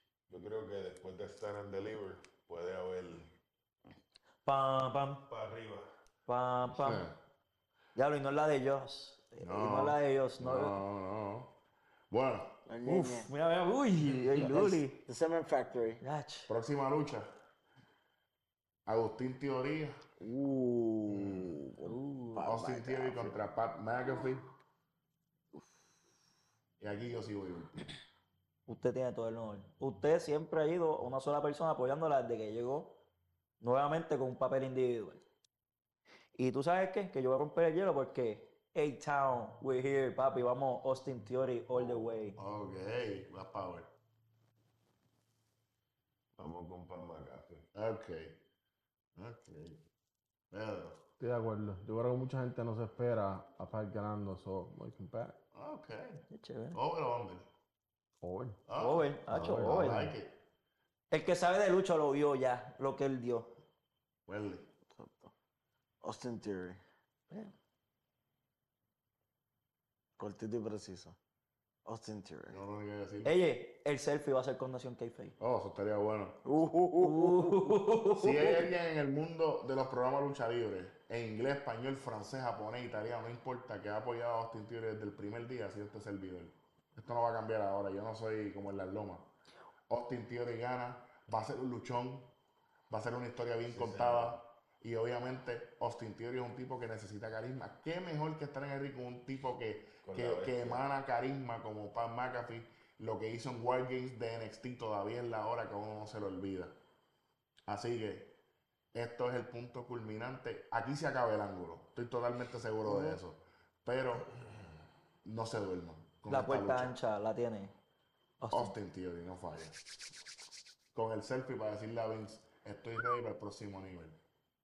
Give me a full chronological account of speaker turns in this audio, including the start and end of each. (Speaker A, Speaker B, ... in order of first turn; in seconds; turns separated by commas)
Speaker A: 0.3-3.3, Speaker B: 4.5-5.3, Speaker A: 5.3-5.9, Speaker B: 6.3-7.1, Speaker C: 6.8-7.2, Speaker B: 8.0-10.8, Speaker C: 9.4-11.6, Speaker C: 12.1-12.7, Speaker D: 12.7-13.3, Speaker B: 12.8-15.1, Speaker D: 14.3-16.0, Speaker B: 16.0-16.5, Speaker C: 16.5-17.3, Speaker C: 18.9-20.1, Speaker D: 20.2-23.4, Speaker C: 21.1-21.5, Speaker B: 21.9-22.5, Speaker C: 22.4-24.5, Speaker C: 26.8-27.9, Speaker B: 28.7-33.0, Speaker B: 33.6-35.2, Speaker B: 36.4-42.4, Speaker C: 42.4-43.9, Speaker A: 46.4-47.7, Speaker C: 47.7-48.4, Speaker C: 49.2-49.8, Speaker C: 50.5-51.0, Speaker E: 51.2-55.4, Speaker C: 55.5-57.5, Speaker B: 56.3-56.8, Speaker E: 58.2-58.6, Speaker C: 58.7-60.4, Speaker B: 58.8-60.1, Speaker E: 59.3-60.2, Speaker B: 61.1-63.6, Speaker C: 64.3-64.7, Speaker D: 64.9-65.3, Speaker D: 66.0-66.8, Speaker D: 70.2-71.2, Speaker D: 71.8-72.6, Speaker C: 72.5-73.3, Speaker B: 73.2-75.4, Speaker C: 75.4-76.4, Speaker D: 76.5-77.8, Speaker B: 77.0-78.7, Speaker C: 78.1-89.3, Speaker C: 89.9-92.3, Speaker C: 92.9-106.8, Speaker A: 93.7-94.4, Speaker A: 100.0-100.8, Speaker C: 107.7-108.4, Speaker C: 108.9-114.4, Speaker D: 112.8-113.2, Speaker C: 115.2-116.9, Speaker B: 116.3-117.8, Speaker B: 118.4-118.7, Speaker C: 118.5-119.8, Speaker C: 120.9-124.2